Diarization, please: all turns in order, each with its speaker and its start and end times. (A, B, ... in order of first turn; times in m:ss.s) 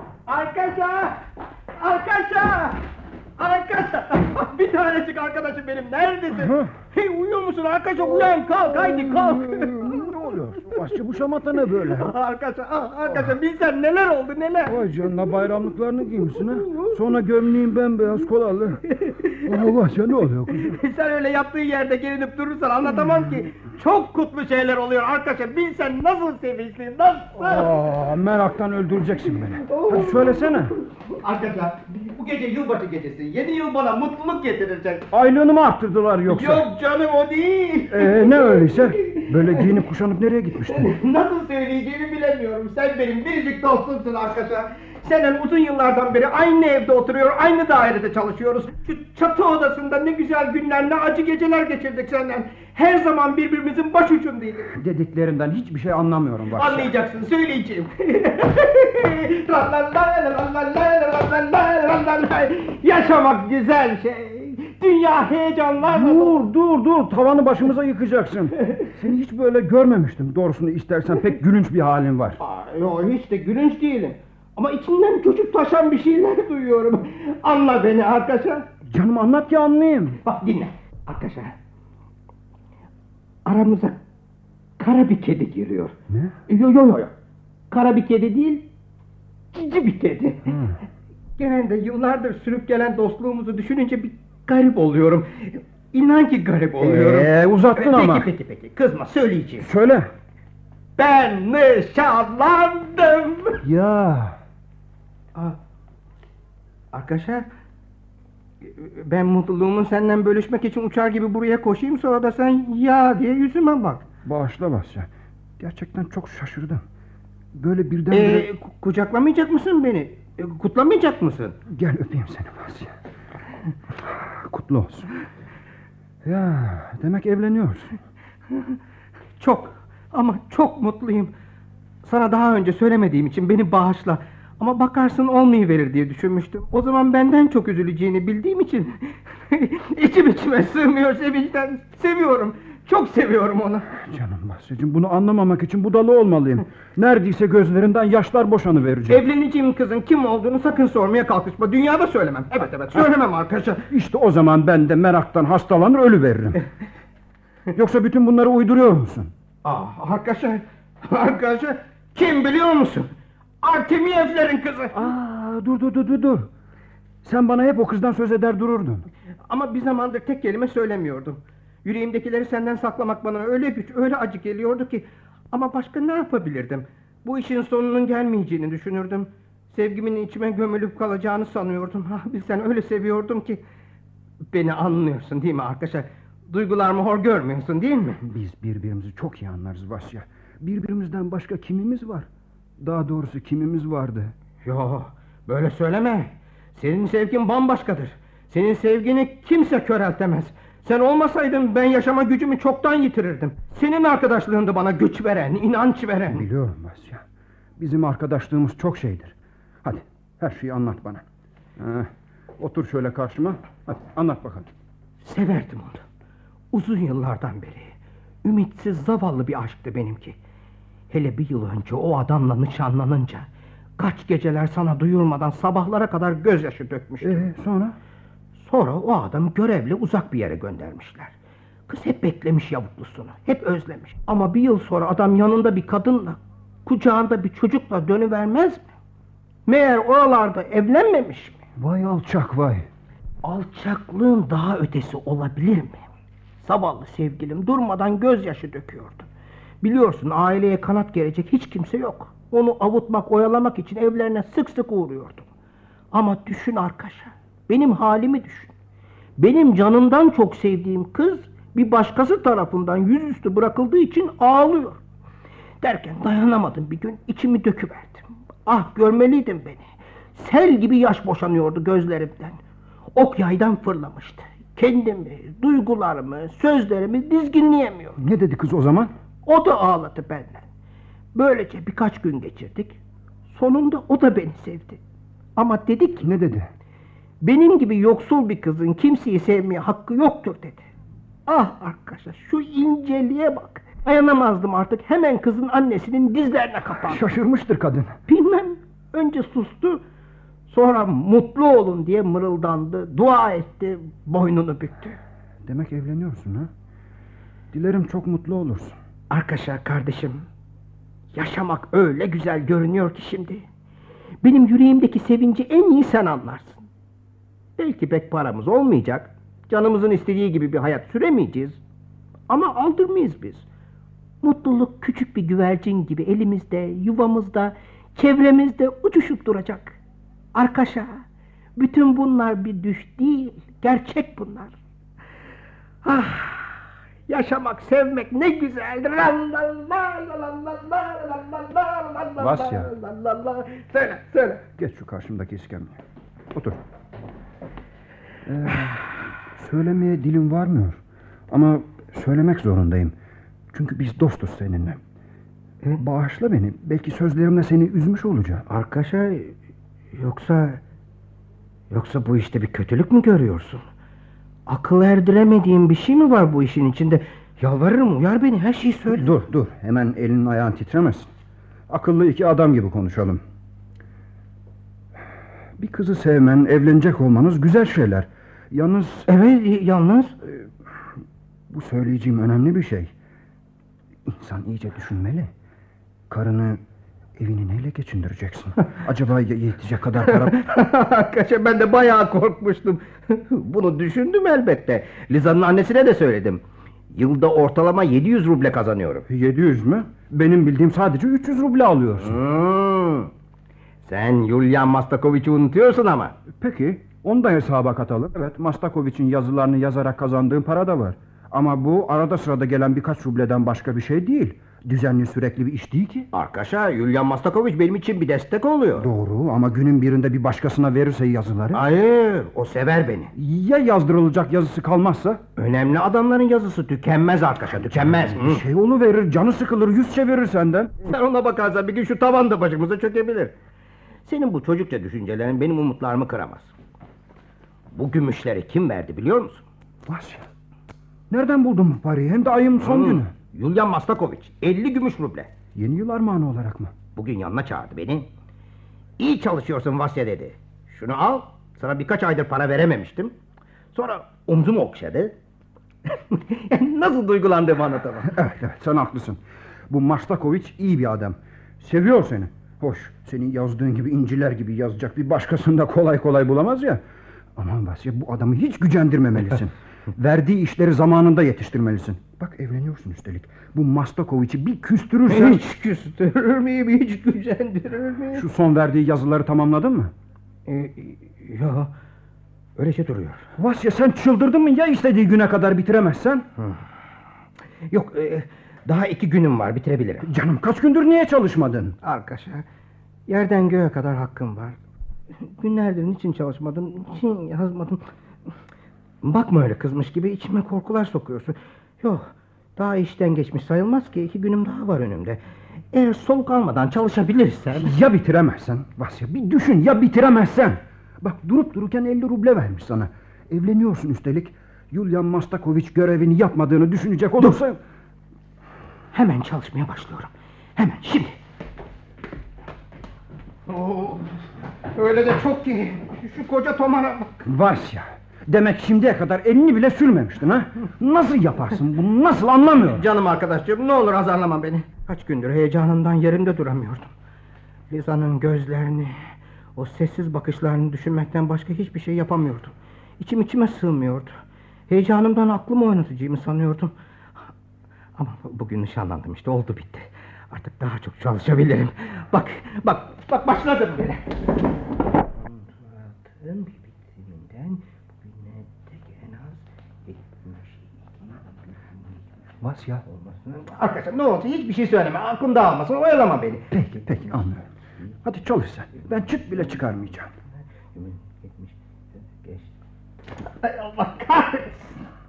0:00.3-0:01.2 A
0:01.8-0:02.8 A
0:03.4-0:10.1 A
0:06.3-0:06.7 B
0:08.7-0:12.1 B
0:12.0-0:14.8 A
0:14.7-0:18.8 B
0:16.6-0:17.0 A
0:18.9-0:19.5 A
0:19.4-0:20.8 B
0:20.5-0:27.7 A
0:27.4-0:30.7 B
0:29.6-0:35.1 A
0:35.1-0:36.7 B
0:36.3-0:39.7 A
0:37.9-0:40.9 B
0:40.7-0:54.7 A
0:54.7-0:56.9 B
0:56.5-1:06.4 A
1:05.8-1:12.4 B
1:12.4-1:18.7 A
1:18.8-1:20.2 B
1:20.2-1:21.5 A
1:23.4-1:24.0 A
1:24.8-1:25.9 A
1:26.1-1:26.4 B
1:26.5-1:27.1 A
1:27.7-1:28.7 A
1:29.5-1:30.6 A
1:30.5-1:30.8 B
1:31.4-1:39.7 A
1:36.8-1:38.3 B
1:39.6-1:40.1 B
1:41.0-1:43.6 A
1:43.6-1:44.4 B
1:46.9-1:47.4 A
1:48.6-1:54.0 A
1:54.2-1:56.8 B
1:57.5-1:58.5 B
1:58.1-2:01.6 A
2:01.7-2:02.9 B
2:04.0-2:05.1 B
2:06.2-2:07.9 B
2:09.4-2:11.3 A
2:12.0-2:24.0 A
2:24.1-2:29.2 B
2:29.1-2:33.9 A
2:33.9-2:36.6 B
2:37.7-2:39.3 B
2:39.6-2:43.1 A
2:43.6-2:45.0 A
2:44.9-2:46.5 B
2:47.2-2:49.0 B
2:49.5-3:03.6 A
3:04.5-3:08.2 A
3:08.2-3:12.3 B
3:12.8-3:14.3 B
3:14.6-3:26.4 A
3:26.3-3:27.2 B
3:27.8-3:31.2 B
3:31.8-3:34.7 B
3:35.2-3:36.0 A
3:36.7-3:40.4 A
3:41.1-3:43.5 A
3:44.0-3:47.5 A
3:47.2-3:48.0 B
3:48.6-3:51.3 A
3:51.9-3:58.8 A
3:59.6-4:01.6 A
4:01.8-4:02.9 B
4:03.4-4:06.0 A
4:06.6-4:09.3 A
4:09.8-4:15.5 A
4:16.1-4:18.7 A
4:19.4-4:25.0 A
4:25.8-4:32.6 A
4:33.1-4:38.2 A
4:38.2-4:39.1 B
4:39.4-4:40.6 A
4:41.3-4:43.0 A
4:43.5-4:45.0 A
4:45.6-4:46.3 A
4:46.2-4:46.7 B
4:47.4-4:50.8 A
4:51.5-4:57.2 A
4:57.0-4:58.2 B
4:58.3-5:00.0 A
5:00.7-5:05.2 A
5:05.6-5:06.7 B
5:07.7-5:09.0 B
5:09.3-5:10.5 A
5:11.3-5:13.6 A
5:14.4-5:16.8 A
5:17.8-5:21.8 A
5:22.5-5:23.6 A
5:24.4-5:29.9 A
5:30.5-5:31.2 A
5:31.8-5:34.7 A
5:36.0-5:44.6 A
5:42.4-5:42.9 B
5:44.8-5:46.0 B
5:46.5-5:46.8 B
5:48.4-5:53.1 B
5:53.7-5:55.0 B
5:56.0-5:58.6 B
5:58.7-5:59.5 A
6:00.1-6:00.8 A
6:01.9-6:03.8 A
6:04.7-6:09.2 A
6:09.1-6:11.3 B
6:11.9-6:13.4 B
6:15.8-6:19.3 B
6:19.3-6:20.4 A
6:20.4-6:20.7 B
6:21.7-6:23.1 B
6:24.2-6:25.5 B
6:26.3-6:26.8 B
6:27.4-6:30.6 B
6:30.2-6:39.2 A
6:39.3-6:42.4 B
6:42.2-6:43.3 A
6:44.0-6:46.4 A
6:46.5-6:56.3 B
6:56.3-6:59.1 A
6:59.0-7:01.8 B
7:01.7-7:03.3 A
7:03.3-7:05.4 B
7:05.6-7:08.6 A
7:07.9-7:10.9 B
7:11.0-7:13.5 A
7:14.2-7:16.7 A
7:17.9-7:19.6 A
7:20.0-7:20.5 B
7:21.3-7:23.3 B
7:22.8-7:25.5 A
7:25.7-7:26.9 B
7:27.1-7:28.3 A
7:29.2-7:33.3 A
7:33.9-7:35.3 A
7:36.1-7:38.3 A
7:38.2-7:47.0 B
7:47.6-7:55.6 B
7:55.3-7:58.4 A
7:58.3-8:00.1 B
8:00.7-8:01.9 A
8:02.8-8:03.5 A
8:03.6-8:06.4 B
8:07.9-8:10.3 A
8:10.2-8:12.0 B
8:12.0-8:12.6 A
8:13.3-8:14.8 A
8:15.4-8:18.0 A
8:19.2-8:25.4 A
8:25.9-8:27.9 A
8:27.8-8:37.8 B
8:39.1-8:41.4 A
8:43.7-8:44.3 A
8:44.9-8:47.4 A
8:47.4-8:53.0 B
8:52.8-8:57.1 A
8:57.9-8:59.2 A
8:59.8-9:04.4 A
9:04.9-9:06.9 A
9:08.2-9:14.4 A
9:15.4-9:21.4 A
9:22.6-9:23.0 B
9:23.1-9:26.7 A
9:26.7-9:27.7 B
9:28.2-9:30.3 B
9:30.9-9:31.7 A
9:32.3-9:32.7 A
9:33.6-9:34.9 A